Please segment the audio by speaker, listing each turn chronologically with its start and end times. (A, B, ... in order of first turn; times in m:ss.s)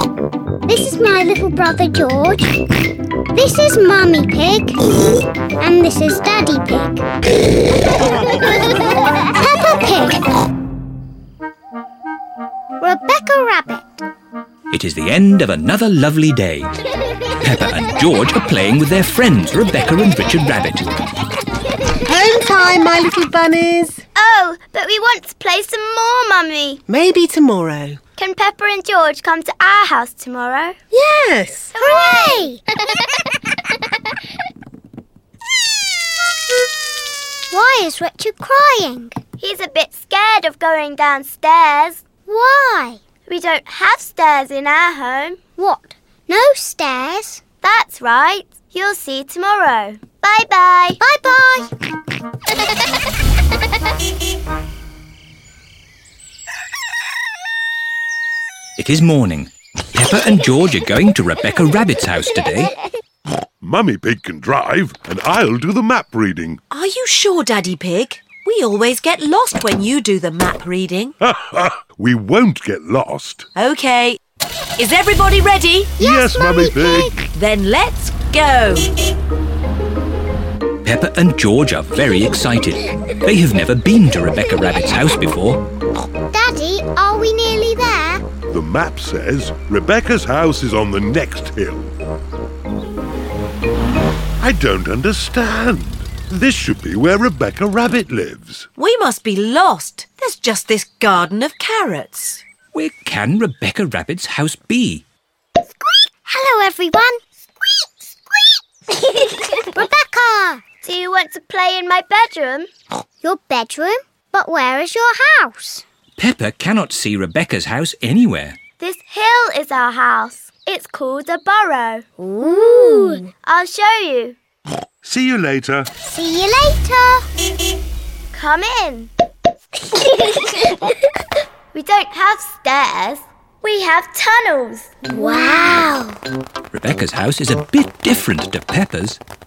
0:00.7-0:02.7 A
0:03.3-0:04.8 A
0:05.6-0:07.0 A
0:09.1-0:10.2 A
0:12.8-0:14.0 A
0:14.7-0:16.7 B
0:17.4-0:20.9 B
0:22.0-0:24.0 C
0:24.2-0:26.8 D
0:26.9-0:28.0 C
0:28.2-0:30.7 D
0:30.9-0:31.7 C
0:31.7-0:32.4 D
0:31.8-0:32.6 A
0:37.5-0:39.2 A
0:39.4-0:42.0 D
0:42.2-0:43.0 A
0:43.2-0:45.4 D
0:45.6-0:47.4 A
0:47.6-0:51.0 D
0:51.0-0:51.7 A
0:58.8-1:02.7 B
1:03.6-1:06.6 E
1:06.7-1:11.1 F
1:11.2-1:13.5 E
1:13.6-1:14.2 F
1:14.8-1:16.0 F
1:16.0-1:17.2 A
1:16.0-1:17.3 E
1:17.3-1:19.0 F
1:20.8-1:25.6 B
1:26.3-1:28.2 A
1:28.5-1:31.9 E
1:34.4-1:38.7 E
1:38.8-1:42.4 F
1:42.7-1:45.0 B
1:46.2-1:47.2 A
1:49.7-1:50.6 A
1:50.8-1:52.7 D
1:53.2-1:55.8 A
1:56.2-1:58.6 B
1:58.8-2:04.4 D
2:02.2-2:03.2 A
2:05.0-2:05.9 E
2:06.0-2:07.2 A
2:08.3-2:09.1 D
2:10.3-2:10.8 D
2:11.7-2:14.9 D
2:15.1-2:16.2 A
2:16.7-2:19.2 B